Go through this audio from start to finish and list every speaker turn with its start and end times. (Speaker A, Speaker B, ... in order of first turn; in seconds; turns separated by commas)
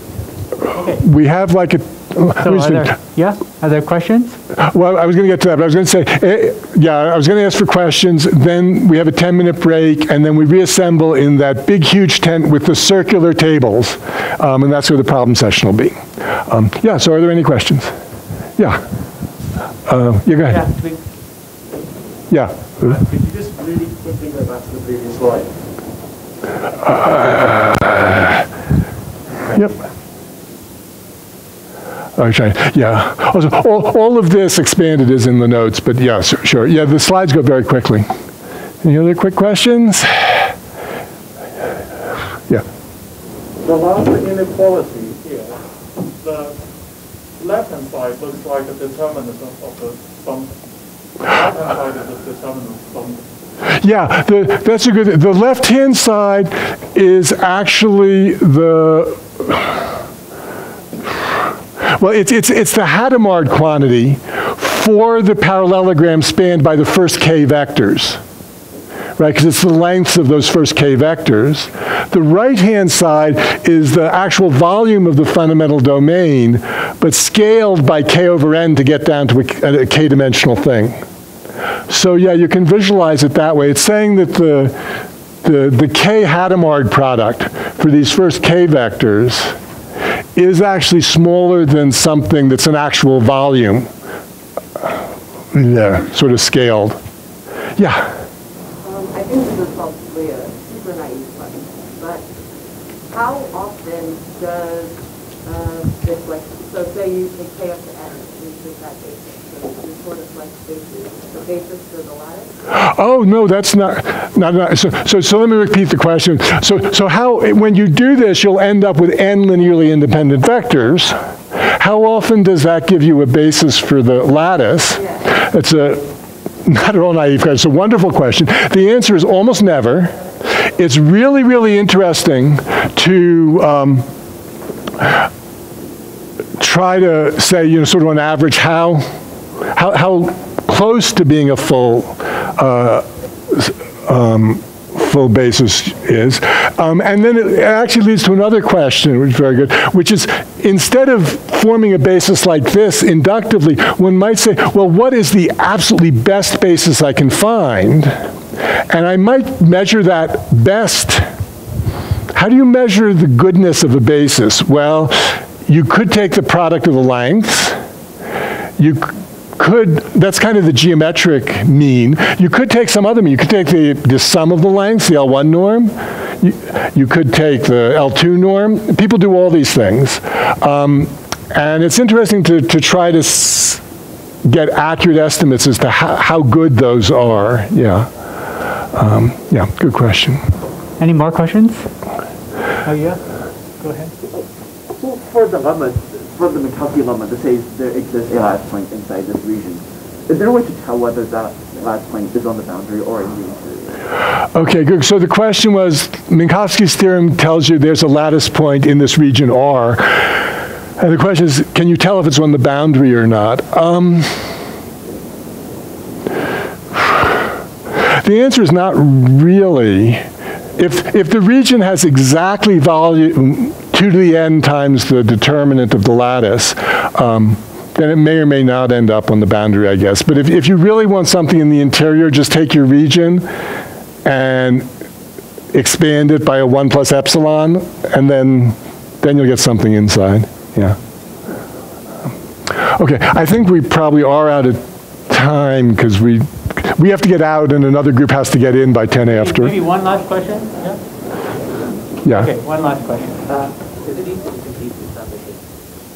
Speaker A: 0.8-2.9, Speaker B: 2.4-4.4, Speaker A: 4.6-17.9, Speaker A: 18.6-18.8, Speaker A: 19.9-20.7, Speaker C: 20.5-21.0, Speaker A: 22.3-23.0, Speaker D: 22.8-25.5, Speaker A: 26.9-28.4, Speaker A: 32.2-38.1, Speaker A: 38.8-40.5, Speaker D: 43.6-45.6, Speaker D: 46.2-46.6, Speaker D: 47.4-50.5, Speaker D: 51.2-53.2, Speaker A: 53.8-59.8, Speaker A: 61.8-68.2, Speaker A: 69.2-81.0, Speaker A: 81.9-84.8, Speaker A: 85.4-89.5, Speaker A: 90.4-93.9, Speaker A: 95.5-97.0, Speaker A: 97.8-98.1, Speaker E: 98.8-102.2, Speaker E: 103.1-112.5, Speaker A: 112.7-126.1, Speaker A: 126.7-130.2, Speaker A: 130.8-134.1, Speaker A: 135.0-135.3, Speaker A: 136.6-139.1, Speaker A: 139.7-158.2, Speaker A: 158.9-161.3, Speaker A: 162.3-167.8, Speaker A: 168.8-183.8, Speaker A: 184.4-188.1, Speaker A: 188.9-190.4, Speaker B: 191.0-191.9, Speaker B: 192.8-193.2, Speaker B: 193.8-194.1, Speaker F: 195.0-204.0, Speaker A: 204.5-210.4, Speaker A: 211.0-214.4, Speaker A: 218.1-220.2, Speaker A: 220.8-233.5, Speaker A: 234.2-234.9, Speaker A: 235.7-241.0, Speaker A: 242.7-249.8, Speaker B: 249.7-250.1, Speaker C: 249.9-251.0, Speaker A: 252.2-252.5, Speaker B: 252.3-253.4, Speaker C: 253.6-255.6